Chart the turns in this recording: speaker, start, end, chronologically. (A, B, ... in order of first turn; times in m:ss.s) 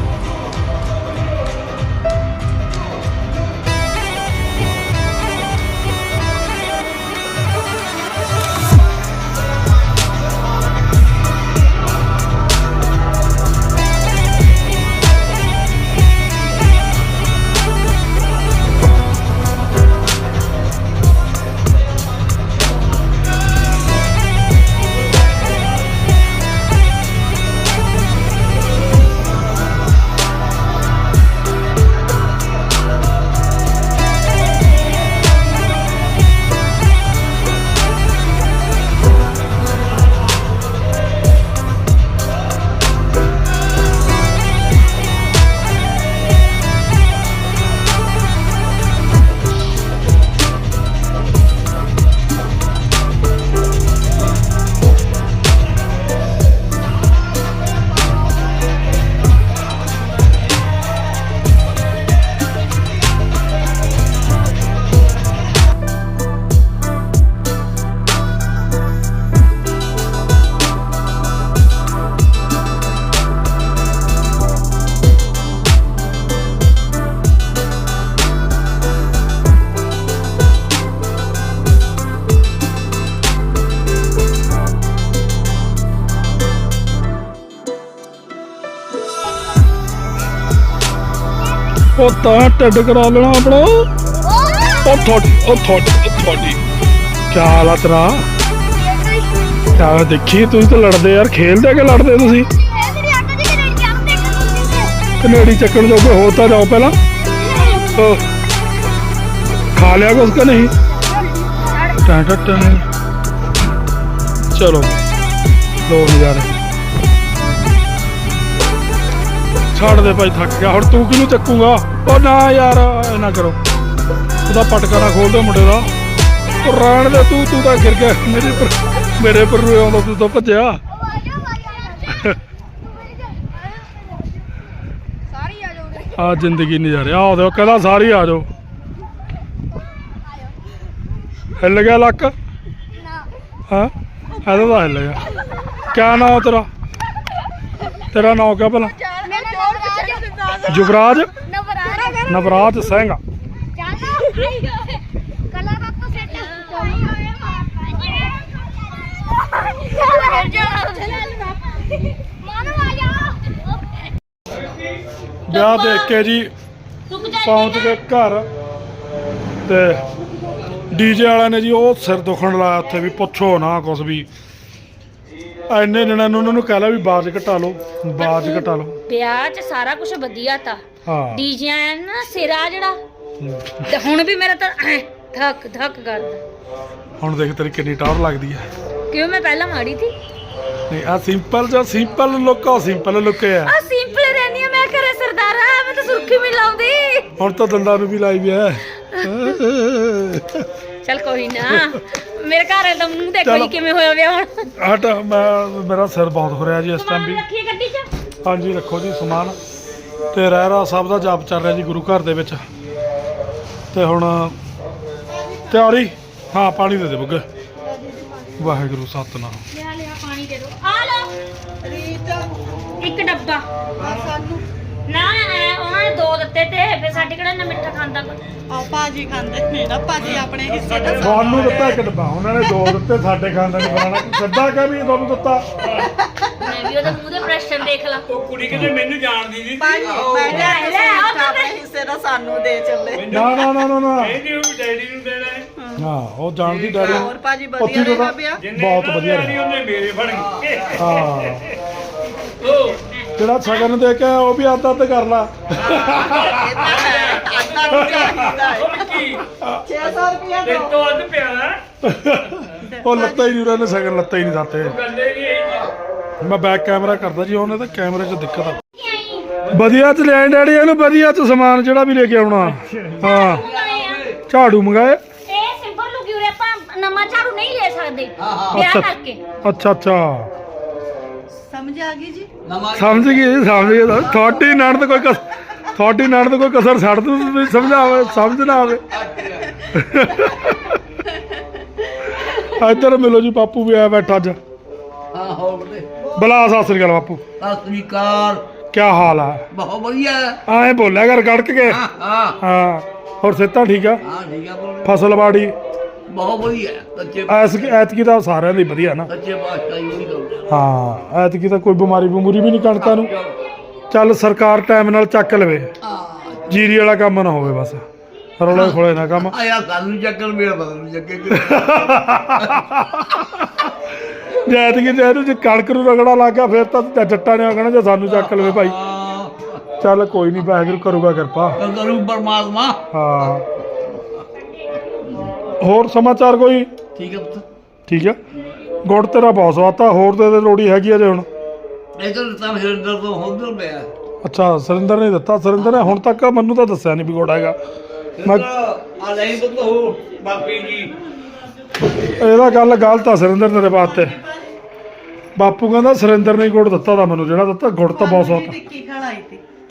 1:32.0-1:33.9 A
1:34.3-1:34.8 B
1:34.8-1:36.6 A
1:37.3-1:38.3 A
1:39.7-1:42.5 A
1:42.7-1:44.9 B
1:45.2-1:47.0 A
1:47.4-1:47.9 B
1:47.8-1:48.2 A
1:49.7-1:50.7 A
1:51.7-1:52.6 B
1:52.0-1:52.8 A
1:54.5-1:55.0 A
1:55.8-1:56.5 A
1:59.7-2:03.6 A
2:04.4-2:05.9 A
2:06.6-2:10.8 A
2:12.0-2:12.4 A
2:16.1-2:18.5 A
2:21.6-2:22.3 A
2:23.7-2:25.2 A
2:25.9-2:26.7 A
2:28.1-2:29.0 A
2:29.1-2:30.7 B
2:30.6-2:31.3 A
2:31.4-2:32.5 B
2:32.2-2:33.2 A
2:33.8-2:34.7 B
2:35.6-2:37.2 B
2:39.8-2:41.4 B
2:42.4-2:43.3 B
2:44.5-2:44.9 C
2:45.5-2:46.5 A
2:45.5-2:46.2 B
2:47.1-2:48.0 B
2:47.4-2:48.5 A
2:49.6-2:50.0 A
2:50.9-2:54.3 A
2:55.7-2:59.0 A
2:58.2-3:03.0 B
3:01.0-3:01.4 A
3:03.4-3:03.8 A
3:03.8-3:06.4 B
3:07.2-3:08.7 A
3:09.1-3:10.1 B
3:10.9-3:13.7 A
3:13.6-3:17.3 B
3:17.4-3:20.7 A
3:19.1-3:19.5 B
3:21.0-3:24.7 B
3:21.7-3:22.0 A
3:23.4-3:23.7 A
3:24.8-3:27.4 A
3:27.0-3:28.1 B
3:28.4-3:29.6 A
3:30.3-3:32.6 A
3:33.9-3:34.6 A
3:35.2-3:36.0 D
3:35.7-3:37.4 A
3:37.8-3:38.7 D
3:38.6-3:39.6 A
3:39.7-3:41.3 B
3:41.8-3:42.9 D
3:43.0-3:43.7 B
3:44.0-3:44.6 D
3:45.1-3:48.4 B
3:48.7-3:51.7 D
3:50.6-3:52.1 C
3:51.2-3:55.7 A
3:55.8-3:56.1 C
3:56.0-3:56.5 D
3:56.6-3:58.2 B
3:58.2-4:00.4 C
3:59.8-4:03.4 D
4:00.0-4:00.8 E
4:00.5-4:01.8 B
4:03.1-4:05.7 C
4:03.3-4:04.4 A
4:06.0-4:09.6 A
4:06.7-4:07.2 E
4:07.0-4:08.6 D
4:08.6-4:11.7 C
4:10.3-4:11.0 E
4:10.9-4:11.6 A
4:12.6-4:13.0 C
4:13.3-4:16.7 A
4:15.8-4:19.1 D
4:16.7-4:19.4 C
4:19.8-4:21.0 D
4:20.0-4:21.8 C
4:22.0-4:25.0 A
4:22.8-4:23.6 D
4:24.8-4:25.9 C
4:26.4-4:28.8 A
4:29.0-4:29.5 B
4:29.6-4:30.0 C
4:29.7-4:33.6 A
4:32.6-4:33.3 C
4:33.2-4:34.2 B
4:33.3-4:34.4 E
4:34.5-4:35.2 A
4:35.5-4:39.4 B
4:38.4-4:38.9 E
4:38.7-4:39.1 A
4:39.6-4:40.5 A
4:41.6-4:42.5 D
4:42.6-4:44.8 E
4:42.9-4:49.0 A
4:49.0-4:49.8 E
4:49.9-4:51.0 A
4:52.6-4:54.6 A
4:55.3-4:56.1 E
4:56.2-4:56.7 D
4:56.4-4:57.4 A
4:57.6-4:58.6 E
4:58.9-4:59.6 A
4:59.7-5:00.6 E
5:00.7-5:02.0 A
5:01.8-5:02.6 E
5:02.6-5:04.2 A
5:04.2-5:05.2 E
5:05.0-5:05.7 A
5:06.3-5:07.9 E
5:07.5-5:09.3 A
5:09.3-5:10.6 E
5:10.7-5:13.3 A
5:13.0-5:13.6 E
5:14.1-5:15.9 A
5:16.0-5:16.8 E
5:16.7-5:18.0 A
5:18.6-5:19.6 A
5:18.7-5:22.9 E
5:21.5-5:23.9 A
5:24.6-5:29.0 A
5:28.2-5:29.8 E
5:30.0-5:31.8 A
5:31.8-5:34.4 E
5:33.1-5:33.6 A
5:34.8-5:35.8 B
5:35.8-5:36.9 A
5:37.1-5:37.6 E
5:38.1-5:38.4 A
5:39.0-5:41.5 A
5:42.2-5:44.1 E
5:44.4-5:47.8 A
5:45.8-5:46.1 E
5:48.4-5:51.1 E
5:52.0-5:52.9 D
5:52.4-5:54.4 A
5:53.9-5:54.7 D
5:55.6-5:58.8 A
5:58.1-5:59.6 D